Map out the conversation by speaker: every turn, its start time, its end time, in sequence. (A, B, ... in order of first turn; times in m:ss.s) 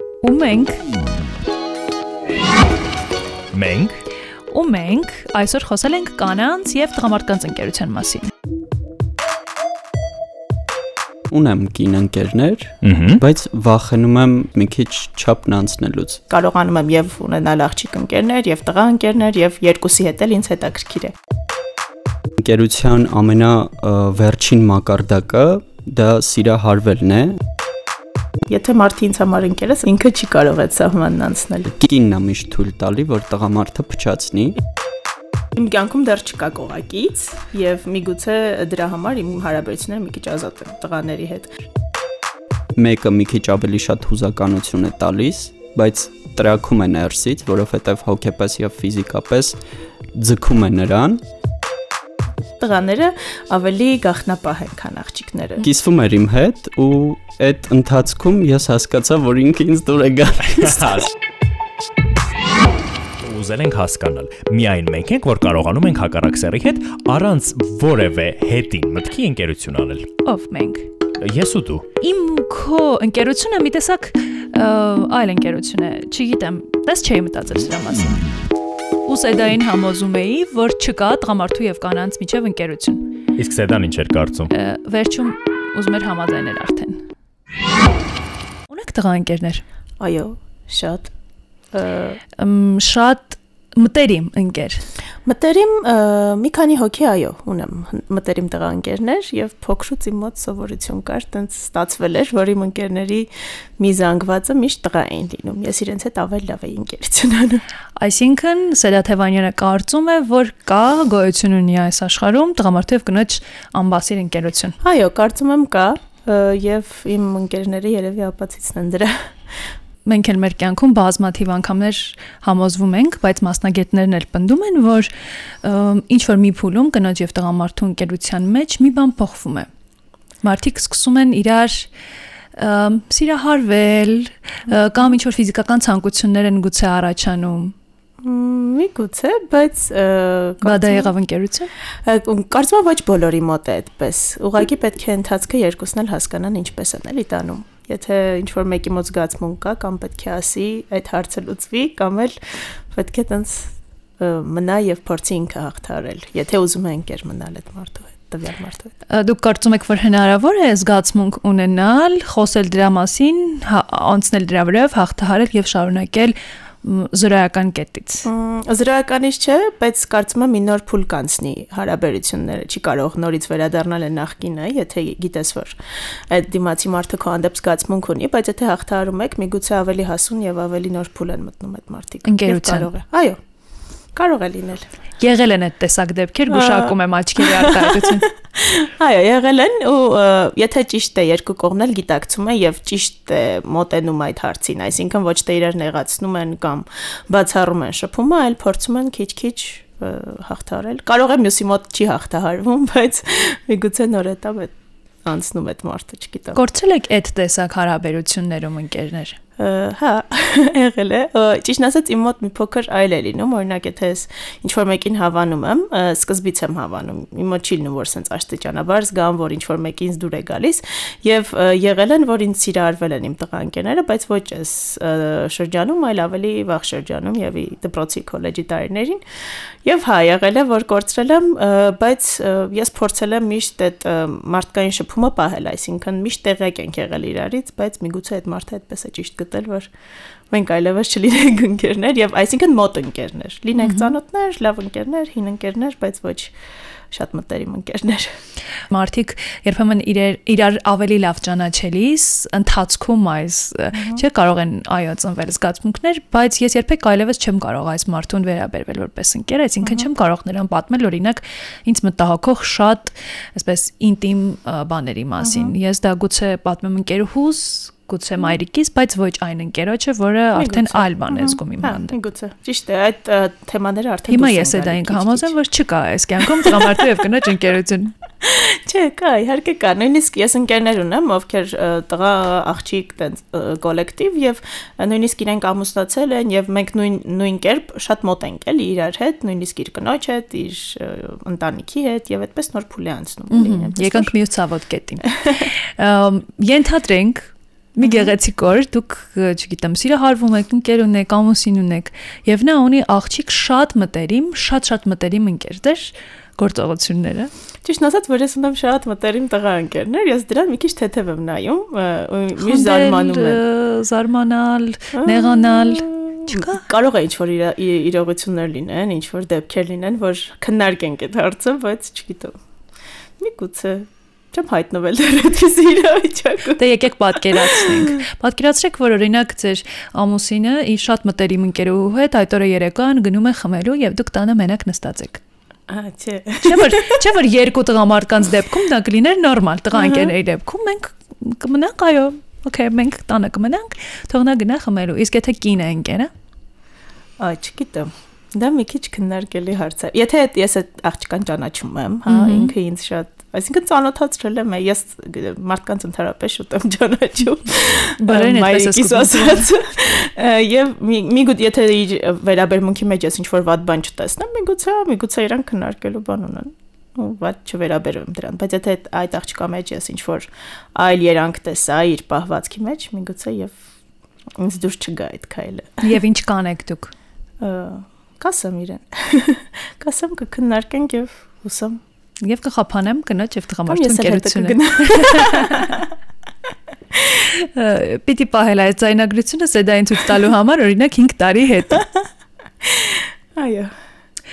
0:00.2-0:00.8 A
0:03.5-0:04.0 B
0:04.5-0:08.3 A
0:11.3-0:16.2 C
0:12.8-0:13.2 B
0:16.3-0:21.1 D
0:22.4-0:27.4 C
0:28.5-0:31.7 D
0:31.7-0:34.6 C
0:35.6-0:41.5 D
0:42.8-0:49.6 C
0:50.1-0:51.2 C
0:52.6-0:55.6 D
0:55.6-1:01.0 C
1:00.5-1:01.1 B
1:03.2-1:10.1 B
1:10.2-1:10.9 A
1:11.2-1:11.8 B
1:12.0-1:18.3 A
1:19.0-1:23.2 A
1:23.4-1:24.5 B
1:24.5-1:27.0 A
1:28.7-1:29.6 A
1:30.0-1:31.1 D
1:31.7-1:32.2 D
1:32.4-1:34.8 A
1:35.2-1:47.6 D
1:48.0-1:54.8 A
1:54.8-1:59.6 D
2:00.0-2:05.1 A
2:05.6-2:09.7 A
2:10.4-2:11.9 A
2:12.6-2:17.7 A
2:18.2-2:21.1 D
2:20.6-2:21.7 A
2:22.0-2:38.9 D
2:39.1-2:48.3 A
2:48.2-2:55.8 D
2:56.3-3:03.4 D
3:02.2-3:02.9 A
3:04.1-3:04.9 D
3:05.2-3:08.3 A
3:06.5-3:24.7 D
3:25.2-3:26.6 D
3:26.5-3:29.4 A
3:29.6-3:49.2 D
3:49.8-3:59.9 D
4:00.5-4:06.5 D
4:03.8-4:04.1 A
4:07.1-4:08.3 D
4:08.9-4:32.1 A
4:13.9-4:14.2 D
4:19.8-4:20.1 D
4:25.4-4:25.7 D
4:30.5-4:35.5 D
4:34.3-4:38.1 A
4:36.4-4:37.0 D
4:38.4-4:54.3 D
4:53.5-5:07.5 A
4:55.2-4:55.7 D
4:58.0-4:58.3 D
5:07.8-5:13.6 D
5:12.6-5:16.8 A
5:15.1-5:22.5 D
5:23.4-5:26.8 D
5:26.8-5:35.4 A
5:27.4-5:28.2 D
5:35.9-5:37.2 D
5:36.6-5:46.3 A
5:39.9-5:40.3 D
5:47.4-6:13.8 D
5:52.3-5:52.7 A
5:58.2-5:59.7 A
6:14.6-6:16.1 D
6:16.0-6:17.1 A
6:17.6-6:22.0 D
6:22.4-6:26.0 A
6:23.9-6:26.1 D
6:27.2-6:27.4 D
6:27.6-6:32.0 A
6:32.8-6:33.9 D